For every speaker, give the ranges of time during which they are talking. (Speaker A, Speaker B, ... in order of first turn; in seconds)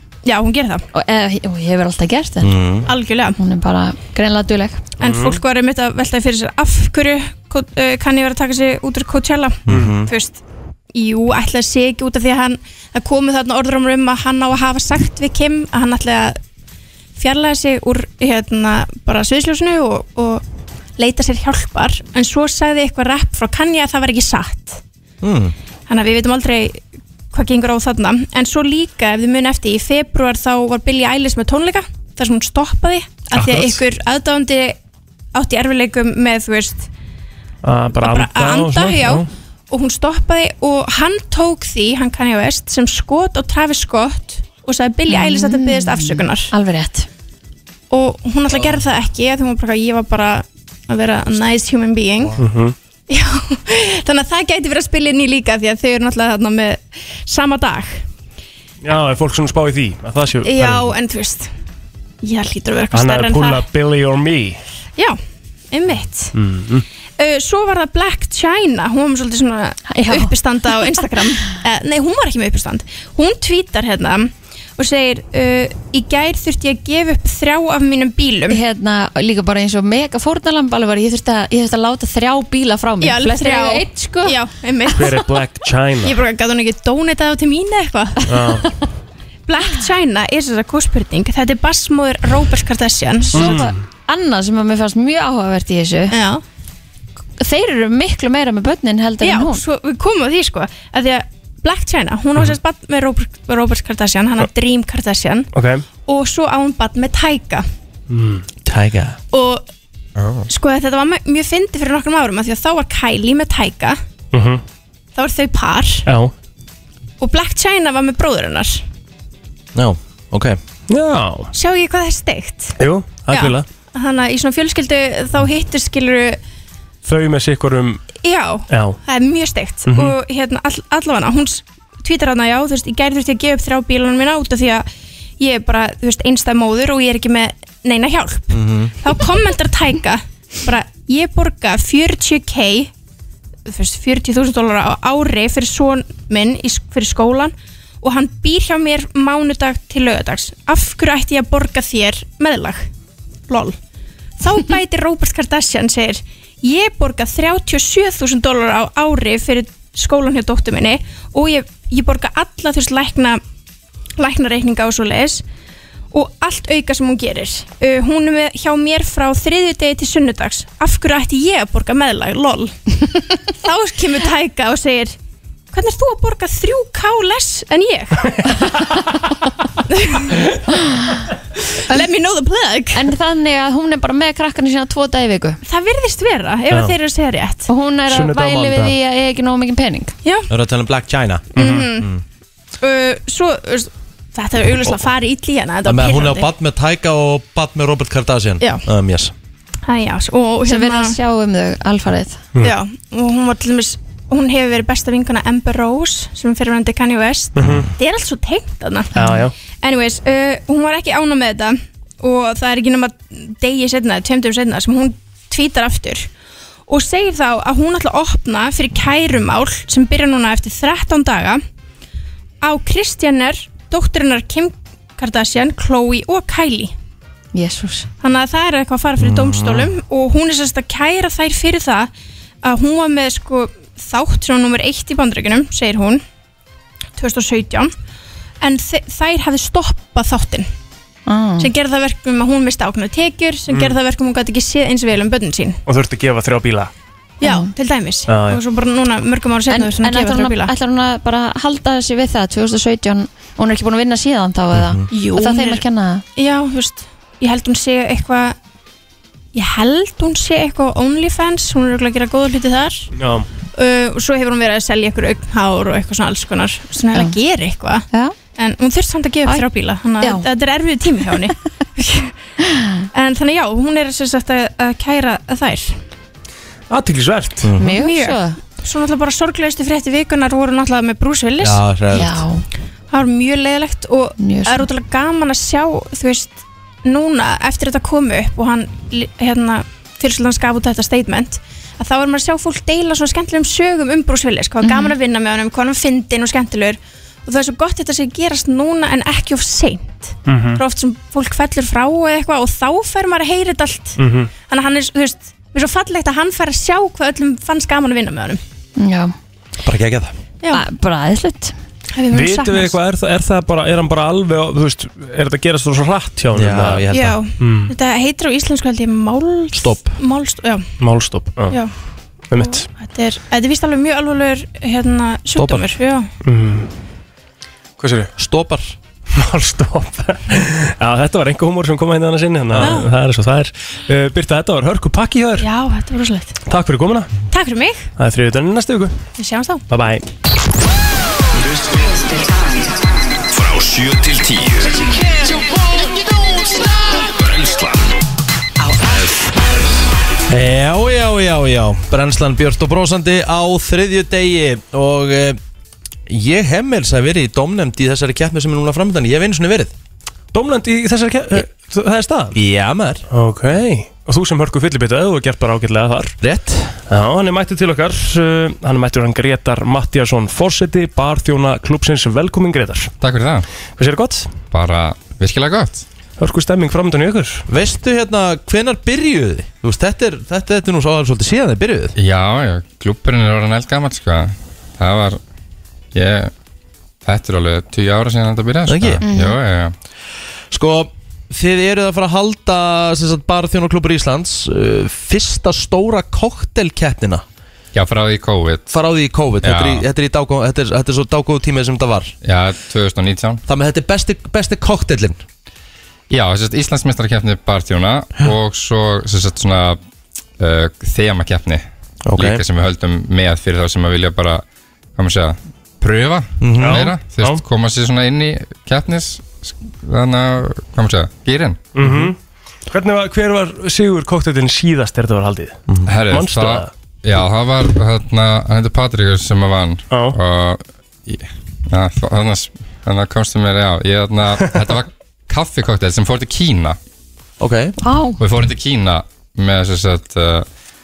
Speaker A: 0.2-0.8, 2.9-3.4, 5.0-10.4, 10.9-16.4, 17.2-20.4, 21.0-24.8, 25.9-34.8, 35.3-36.9, 38.0-46.5, 47.9-52.4, 53.1-58.0, 60.4-61.5, 62.2-63.7, 65.7-66.3, 67.2-78.6, 83.0-85.4, 86.0-88.6, 89.5-93.6, 96.1-96.4, 99.2-105.5, 106.0-107.6, 109.3-109.7, 110.5-114.0, 115.2-116.0, 117.2-118.8, 121.5-122.8, 123.3-126.4, 128.2-134.9, 135.4-142.9, 143.7-152.9, 153.5-153.8, 154.4-163.4, 164.2-165.4, 166.1-175.2, 175.7-178.3, 179.9-180.4, 181.9-183.1, 185.6-187.7, 190.2-190.5, 191.6-192.1, 192.8-196.5, 199.9-201.2, 202.6-216.3, 216.9-221.6, 222.6-226.9, 228.2-232.1, 232.6-236.2, 237.2-237.9, 238.6-240.7, 241.6-245.8, 247.4-250.7, 255.1-255.8, 256.4-258.6, 259.5-263.1, 263.8-268.1, 268.6-272.3, 273.1-276.0, 277.9-281.8, 283.1-308.6, 312.2-312.9, 317.1-320.8, 322.5-326.3, 332.8-333.1, 335.6-336.6, 337.5-338.1, 339.4-339.8
Speaker B: 0.9-2.6, 3.4-4.8, 45.1-47.1, 69.9-70.3, 78.5-84.4, 93.3-96.2, 97.4-99.6, 182.9-185.6, 187.7-190.1, 200.7-202.4, 209.2-209.5, 227.5-228.1, 241.3-241.7, 247.4-247.7, 249.7-256.2, 270.2-270.5, 277.8-278.6, 282.1-282.6, 284.4-284.9, 294.8-295.1, 309.0-309.3, 310.7-311.7, 389.2-389.6, 438.0-438.4
Speaker C: 2.4-2.9, 9.7-10.1, 25.2-25.5, 108.7-109.2, 119.8-120.6, 138.5-138.9, 190.5-192.2, 195.9-199.3, 207.6-207.9, 229.2-229.9, 254.7-255.1, 277.6-277.9, 281.6-282.4, 309.8-310.3, 316.5-317.4, 319.7-320.2, 325.5-325.9, 328.4-329.0, 350.5-355.6, 356.3-359.9, 362.5-363.2, 366.4-367.0, 377.7-382.1, 388.9-389.2, 390.7-397.4, 398.9-402.3, 403.7-405.4, 412.3-412.6, 416.6-417.1, 422.0-422.3, 437.6-438.0
Speaker D: 5.0-5.4, 9.7-10.0, 33.3-33.8, 37.6-39.3, 52.4-52.8, 58.8-60.9, 62.9-64.6, 66.3-66.8, 85.0-86.2, 88.3-88.7, 93.3-93.8, 105.5-105.8, 108.1-108.5, 114.3-114.6, 116.1-116.3, 120.9-121.5, 122.8-123.7, 127.0-128.1, 128.7-129.0, 129.9-130.2, 188.1-188.9, 191.6-191.9, 207.6-207.9, 209.2-209.5, 243.7-244.0, 245.9-246.9, 248.3-248.6, 263.2-263.5, 276.9-277.7, 300.5-300.8, 304.2-304.5, 312.3-317.1, 317.6-317.9, 321.0-321.8, 322.5-322.9, 326.4-326.9, 328.0-328.3, 329.3-335.7, 336.7-337.3, 338.2-339.2, 339.9-340.2, 360.5-362.6, 363.3-366.4, 367.1-373.1, 374.0-374.5, 376.4-377.6, 416.8-417.6, 421.9-422.4, 422.9-426.9, 430.1-430.4
Speaker E: 110.2-110.5, 373.2-373.7, 374.7-376.0, 382.2-385.4, 386.1-386.5, 387.2-389.9, 397.9-399.0, 399.6-400.1, 402.4-403.6, 406.3-410.0, 410.6-411.8, 412.4-414.6, 415.2-421.9, 426.1-437.0, 438.4-440.7
Speaker F: 341.7-342.4, 343.5-345.2, 347.1-348.1, 348.9-349.5